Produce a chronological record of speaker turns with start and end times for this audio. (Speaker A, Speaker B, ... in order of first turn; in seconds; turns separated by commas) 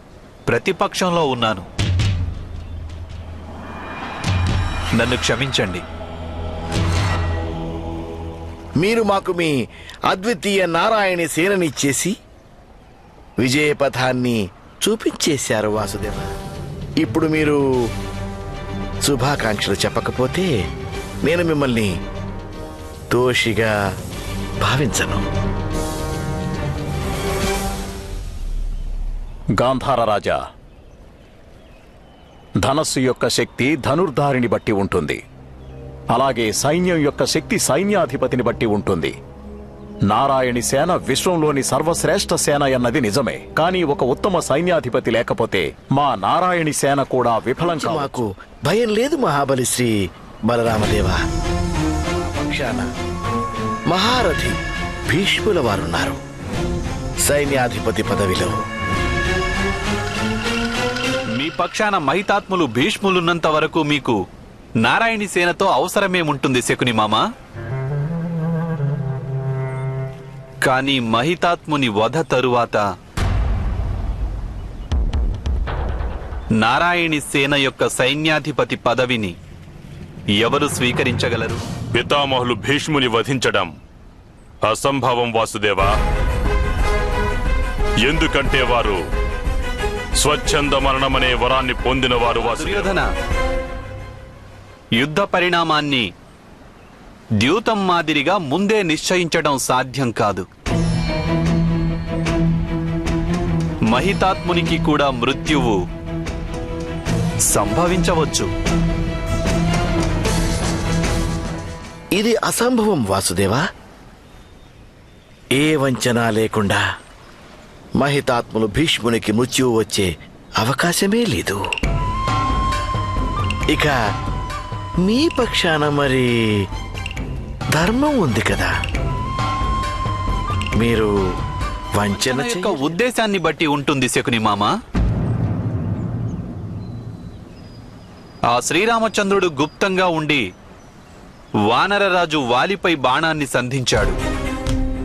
Speaker A: 0.5-1.6, Speaker A: 5.0-5.8, Speaker B: 8.8-9.5, Speaker B: 10.1-12.1, Speaker B: 13.4-16.3, Speaker B: 17.0-17.6, Speaker B: 19.1-20.5, Speaker B: 21.2-21.9, Speaker B: 23.1-23.7, Speaker B: 24.6-25.2, Speaker C: 29.6-30.4, Speaker C: 32.6-35.2, Speaker C: 36.1-39.1, Speaker C: 40.1-48.2, Speaker B: 47.6-49.9, Speaker B: 50.5-51.2, Speaker B: 52.4-52.9, Speaker B: 53.9-54.5, Speaker B: 55.1-56.2, Speaker B: 57.2-58.5, Speaker A: 61.3-64.2, Speaker A: 64.8-67.2, Speaker A: 70.6-72.8, Speaker A: 76.6-79.3, Speaker A: 80.4-81.6, Speaker D: 82.0-83.7, Speaker D: 84.6-85.9, Speaker D: 88.0-89.0, Speaker D: 90.2-92.9, Speaker A: 92.3-93.1, Speaker A: 95.0-96.1, Speaker A: 97.4-100.5, Speaker A: 103.9-105.8, Speaker A: 107.5-108.5, Speaker B: 112.2-113.6, Speaker B: 115.6-116.8, Speaker B: 118.0-120.1, Speaker B: 120.6-121.6, Speaker B: 125.0-126.3, Speaker B: 127.8-128.7, Speaker B: 130.8-131.1, Speaker B: 131.9-132.9, Speaker A: 132.1-134.7, Speaker A: 138.5-140.4, Speaker A: 141.7-144.2